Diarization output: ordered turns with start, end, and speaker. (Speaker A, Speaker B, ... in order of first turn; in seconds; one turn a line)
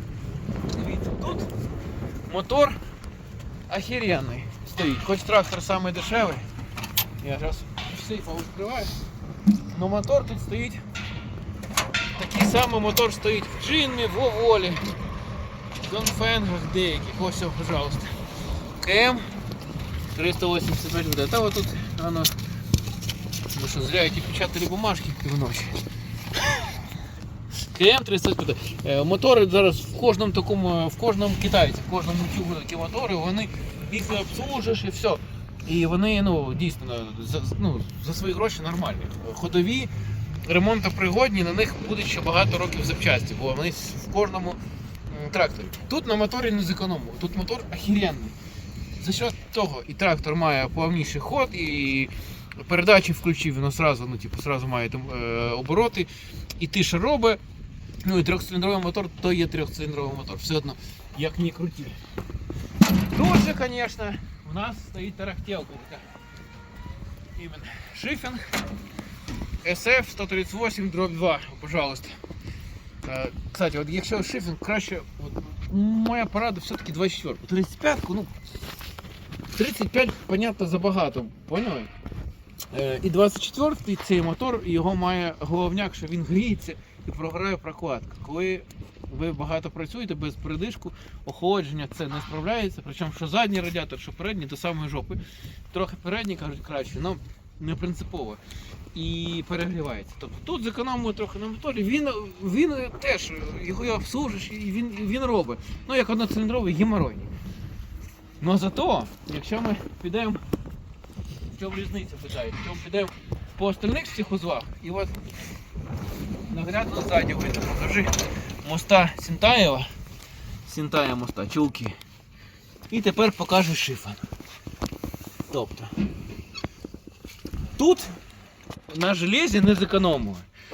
Speaker A: 0.7-1.5
Speaker A: 2.3-2.8
Speaker A: 3.7-6.5
Speaker A: 7.2-8.9
Speaker A: 9.7-10.8
Speaker A: 12.1-14.9
Speaker A: 15.8-18.1
Speaker A: 18.8-19.4
Speaker A: 20.1-22.4
Speaker A: 23.5-25.8
Speaker A: 26.4-26.7
Speaker A: 27.7-39.9
Speaker A: 40.4-48.4
Speaker A: 49.0-57.4
Speaker A: 58.0-62.0
Speaker A: 63.1-66.1
Speaker A: 67.3-68.6
Speaker A: 69.6-72.2
Speaker A: 73.0-78.3
Speaker A: 79.5-81.9
Speaker A: 82.7-95.2
Speaker A: 95.7-98.4
Speaker A: 98.9-107.3
Speaker A: 108.4-110.4
Speaker A: 111.5-115.2
Speaker A: 116.5-119.9
Speaker A: 120.6-122.0
Speaker A: 122.9-124.2
Speaker A: 125.5-125.9
Speaker A: 127.8-128.1
Speaker A: 128.9-130.5